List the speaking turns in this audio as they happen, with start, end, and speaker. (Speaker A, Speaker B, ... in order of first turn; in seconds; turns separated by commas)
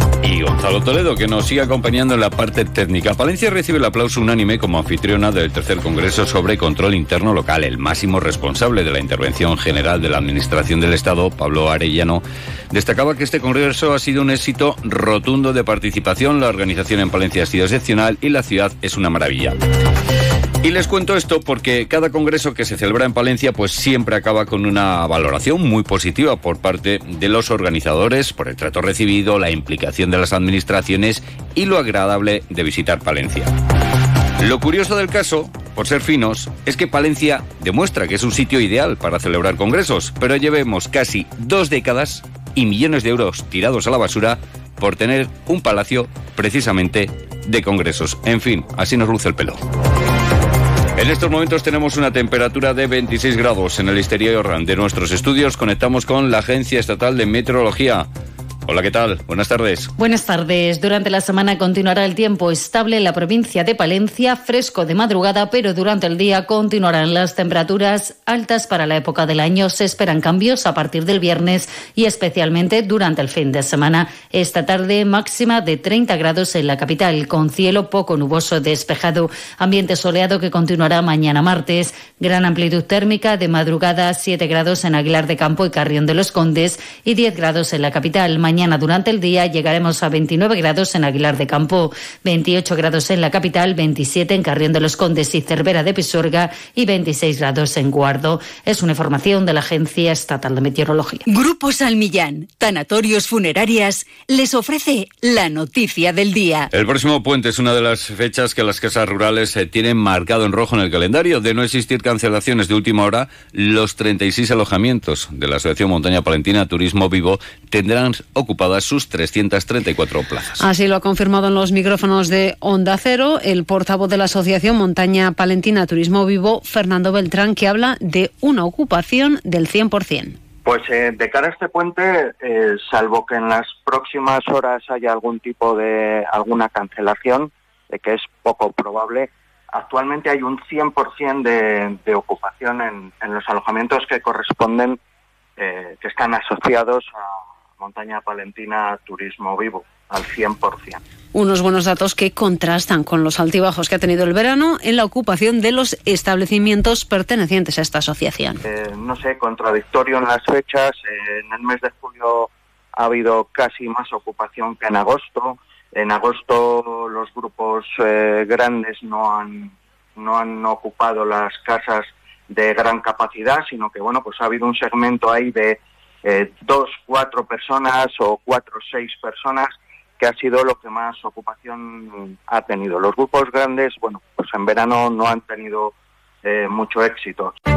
Speaker A: 0.2-19.6, Speaker A: 20.6-33.5, Speaker A: 34.4-49.6, Speaker A: 51.0-58.1, Speaker A: 58.7-59.9, Speaker B: 60.0-101.2, Speaker C: 101.3-106.7, Speaker A: 106.7-120.6, Speaker D: 120.6-130.4, Speaker E: 130.7-145.0, Speaker E: 145.6-147.1, Speaker E: 147.8-151.0, Speaker D: 151.3-158.6, Speaker E: 158.7-185.9, Speaker E: 186.4-187.5